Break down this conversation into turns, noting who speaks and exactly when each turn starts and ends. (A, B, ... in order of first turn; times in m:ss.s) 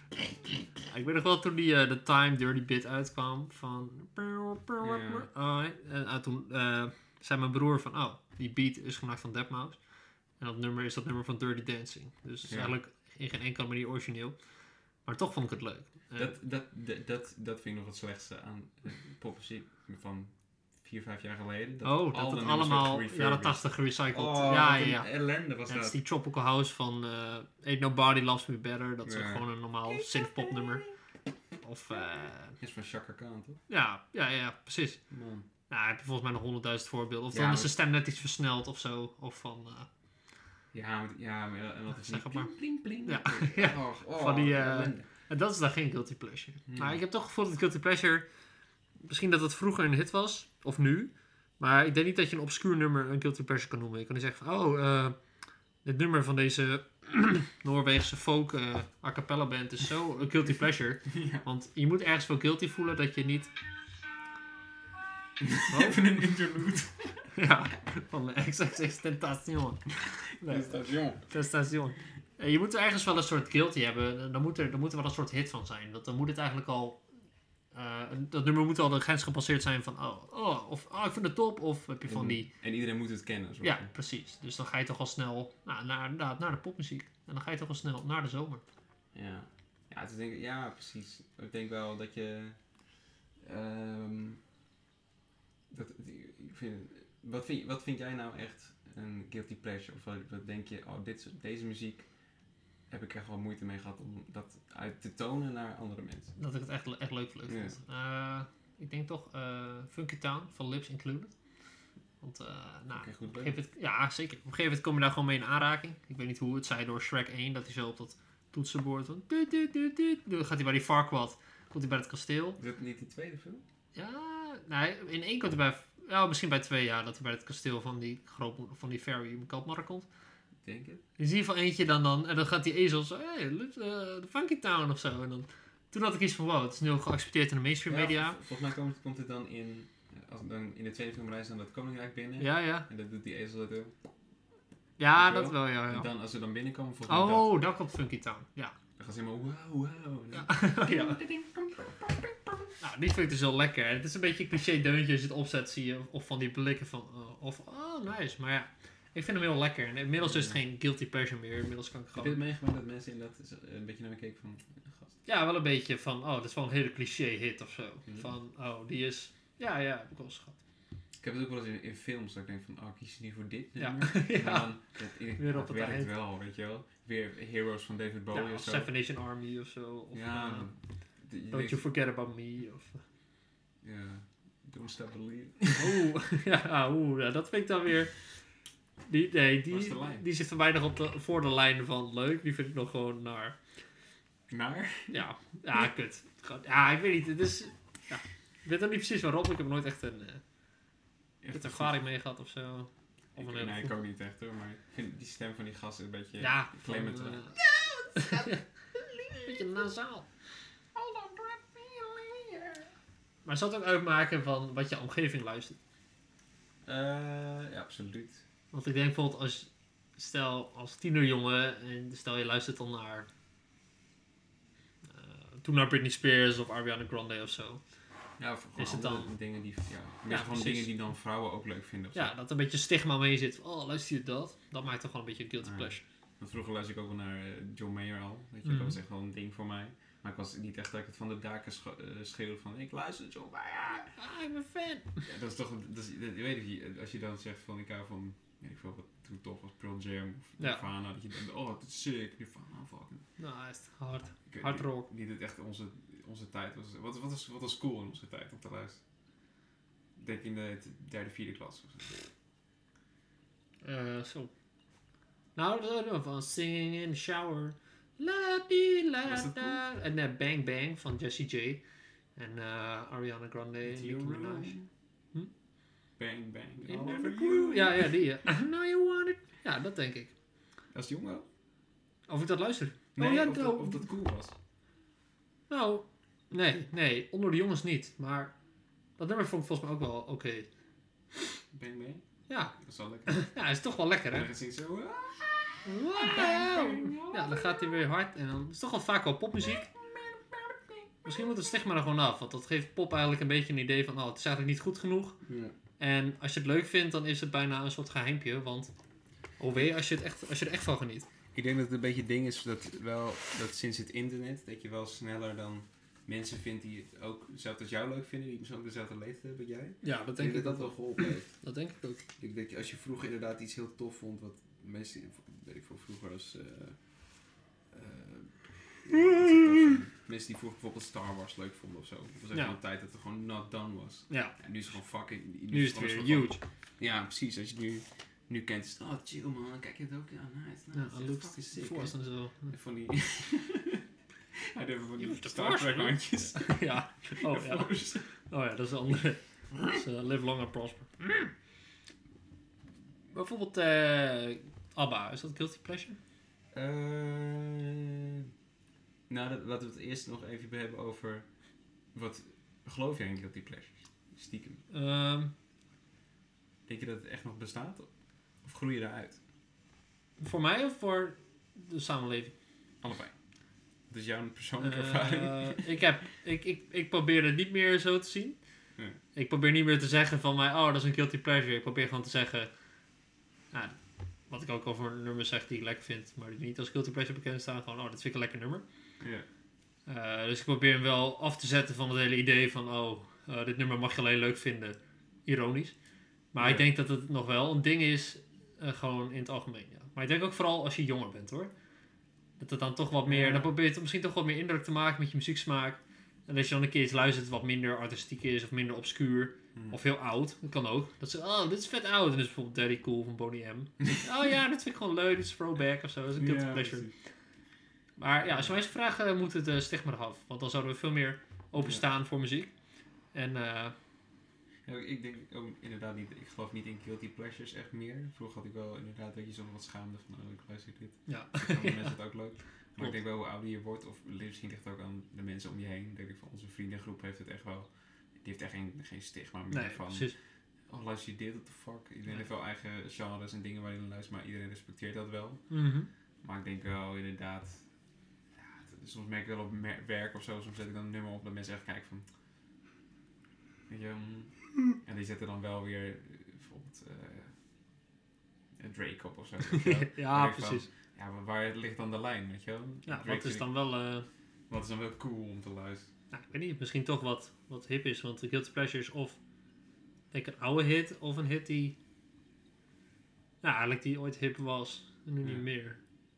0:00.8-0:09.8 A
0:04.8-0:05.3 B
0:10.4-0:14.4 A
0:12.5-0:12.8 B
0:15.0-0:16.4 A
0:16.2-0:26.0 B
0:21.8-0:25.1 A
0:25.7-0:30.9 A
0:29.0-0:30.9 B
0:31.6-0:32.6 A
0:32.6-0:33.6 B
0:33.7-0:35.0 A
0:35.1-0:35.5 B
0:35.7-0:39.9 A
0:37.3-0:37.8 B
0:40.7-0:45.1 B
0:42.0-0:42.5 A
0:43.0-0:48.3 A
0:46.7-0:47.0 B
0:49.0-0:55.2 A
0:55.8-1:03.5 A
1:01.1-1:01.5 B
1:05.4-1:07.2 B
1:05.7-1:06.0 A
1:07.3-1:17.0 A
1:10.4-1:11.2 B
1:17.7-1:22.5 A
1:22.1-1:23.9 B
1:23.6-1:28.6 A
1:29.1-1:32.7 B
1:33.4-1:34.4 B
1:35.7-1:42.1 B
1:42.9-1:46.4 B
1:46.4-1:51.3 A
1:47.5-1:47.8 B
1:52.2-2:02.6 A
1:52.9-1:53.6 B
2:02.6-2:03.6 B
2:04.0-2:10.1 A
2:10.6-2:11.0 B
2:11.2-2:18.4 A
2:17.9-2:23.9 B
2:22.4-2:22.9 A
2:25.0-2:26.1 A
2:25.1-2:27.5 B
2:27.1-2:28.8 A
2:29.0-2:32.7 B
2:30.3-2:31.2 A
2:32.8-2:42.4 A
2:40.2-2:40.6 B
2:42.2-2:45.2 B
2:45.2-2:50.6 A
2:48.1-2:48.3 B
2:51.2-2:58.9 B
2:53.8-2:54.8 A
2:55.4-2:56.1 A
2:58.3-3:00.7 A
3:00.1-3:01.8 B
3:01.5-3:03.0 A
3:03.8-3:06.0 B
3:05.8-3:08.2 A
3:09.1-3:13.6 A
3:09.7-3:10.3 B
3:14.5-3:15.2 B
3:15.1-3:20.4 A
3:21.4-3:22.0 B
3:21.5-3:23.9 A
3:23.4-3:29.8 B
3:26.4-3:27.6 A
3:28.2-3:28.6 A
3:29.4-3:30.3 A
3:30.9-3:32.9 B
3:33.4-3:35.8 A
3:36.8-3:38.4 B
3:38.7-3:43.3 A
3:45.1-3:47.8 A
3:48.4-3:52.3 B
3:48.8-3:49.3 A
3:50.3-3:50.9 A
3:52.2-3:56.0 A
3:55.6-4:04.1 B
3:58.7-3:59.0 A
4:04.1-4:05.2 A
4:05.2-4:13.3 B
4:10.6-4:10.8 A
4:13.4-4:15.1 A
4:14.5-4:19.0 B
4:20.2-4:22.3 B
4:23.8-4:24.5 A
4:25.6-4:31.8 A
4:29.2-4:29.8 B
4:32.4-4:34.8 A
4:33.8-4:34.9 B
4:36.2-4:38.2 B
4:36.9-4:40.3 A
4:40.9-4:41.5 B
4:42.3-4:44.1 A
4:43.2-4:44.6 B
4:45.7-4:48.5 A
4:49.2-4:50.7 A
4:51.7-4:52.2 B
4:52.5-4:54.5 A
4:52.8-4:53.5 B
4:54.3-4:58.0 B
4:55.8-4:59.9 A
4:59.7-5:01.4 B
5:01.2-5:05.4 A
5:05.4-5:05.7 B
5:06.0-5:08.9 A
5:09.6-5:11.3 A
5:11.5-5:21.5 B
5:20.0-5:22.2 A
5:22.4-5:27.1 B
5:27.9-5:44.0 B
5:34.3-5:34.6 A
5:35.7-5:36.6 A
5:40.9-5:42.7 A
5:44.6-5:48.3 B
5:45.2-5:51.5 A
5:53.3-5:56.2 A
5:56.7-5:58.5 B
5:59.3-6:01.5 B
6:02.1-6:04.8 B
6:04.9-6:05.5 A
6:06.9-6:08.1 B
6:08.6-6:09.4 B
6:10.4-6:12.6 A
6:13.0-6:13.4 B
6:14.1-6:16.0 B
6:14.8-6:18.6 A
6:19.3-6:22.7 A
6:23.7-6:24.0 A
6:24.5-6:28.8 A
6:29.2-6:29.5 B
6:30.1-6:36.0 A
6:36.5-6:41.7 A
6:36.6-6:36.8 B
6:42.6-6:57.1 A
6:43.3-6:43.7 B
6:56.4-6:57.2 B
6:58.2-7:02.7 A
6:58.5-6:58.7 B
7:01.8-7:02.0 B
7:03.3-7:04.0 A
7:04.8-7:20.4 B
7:11.3-7:12.2 A
7:19.7-7:20.4 A
7:20.9-7:25.8 B
7:25.7-7:26.1 A
7:26.4-7:27.8 B
7:28.6-7:32.3 B
7:33.9-7:37.5 B
7:38.8-7:43.7 B
7:39.7-7:40.9 A
7:43.1-7:44.3 A
7:44.7-7:46.1 B
7:46.3-7:49.4 A
7:50.3-7:52.0 A
7:53.6-7:56.0 A